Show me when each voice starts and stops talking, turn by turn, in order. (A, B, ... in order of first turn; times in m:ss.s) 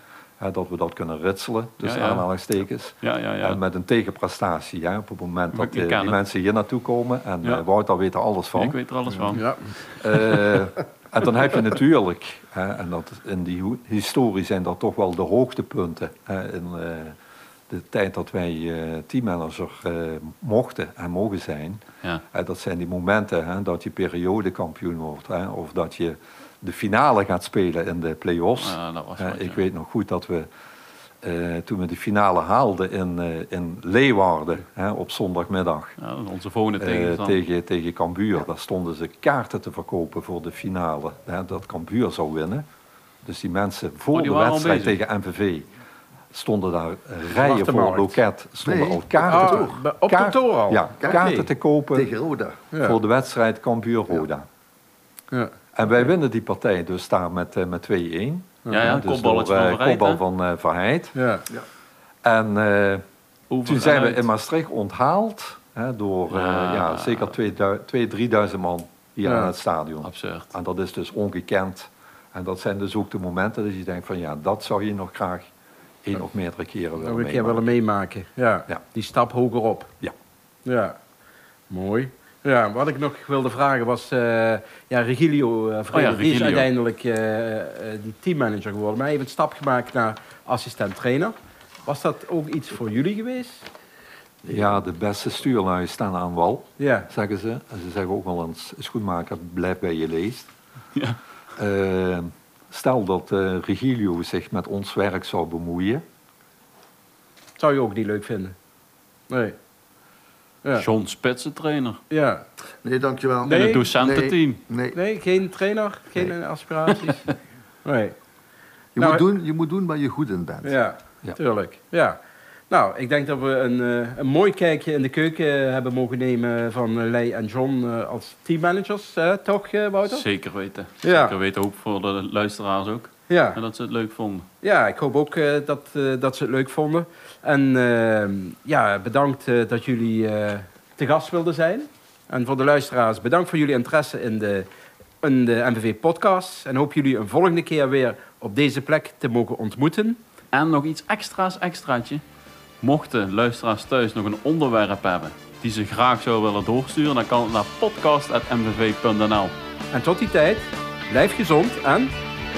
0:00.4-0:08.8 A
0:01.8-0:02.3 B
0:03.0-0:03.6 B
0:05.5-0:06.2 B
0:08.5-0:10.3 B
0:09.3-0:09.7 C
0:10.0-0:17.2 A
0:17.7-0:30.5 A
0:28.6-0:29.6 B
0:31.2-0:36.0 A
0:36.0-0:37.4 B
0:36.8-0:42.6 A
0:43.2-0:45.7 A
0:44.1-0:45.0 B
0:46.3-0:52.1 A
0:47.3-0:48.2 C
0:48.6-0:49.8 D
0:49.3-0:51.5 C
0:51.0-0:51.3 D
0:51.9-0:52.6 D
0:52.7-0:53.0 C
0:52.8-0:54.4 A
0:55.7-1:01.1 A
0:58.6-0:59.0 C
0:58.7-1:00.2 B
1:01.1-1:01.4 C
1:02.2-1:03.0 A
1:03.5-1:04.2 B
1:03.6-1:15.5 A
1:06.3-1:07.3 B
1:09.2-1:09.5 C
1:10.0-1:10.5 B
1:16.0-1:17.7 A
1:17.0-1:19.9 C
1:20.6-1:21.0 C
1:21.7-1:33.7 C
1:25.9-1:26.7 B
1:34.4-1:40.5 A
1:36.8-1:37.1 C
1:41.6-1:46.0 A
1:47.6-1:48.6 C
1:49.3-1:49.6 C
1:50.8-1:52.0 B
1:52.1-1:52.4 C
1:52.8-1:55.0 D
1:53.4-1:53.8 C
1:53.4-1:54.6 B
1:54.9-1:57.2 C
1:56.9-1:57.3 B
1:57.8-1:58.2 C
1:58.9-2:00.8 D
1:59.0-1:59.2 C
2:00.6-2:02.2 C
2:02.7-2:10.3 C
2:10.1-2:14.5 B
2:11.0-2:11.3 C
2:13.3-2:13.6 C
2:14.6-2:24.7 C
2:25.2-2:30.2 C
2:30.5-2:32.2 B
2:32.8-2:39.5 B
2:39.9-2:42.1 C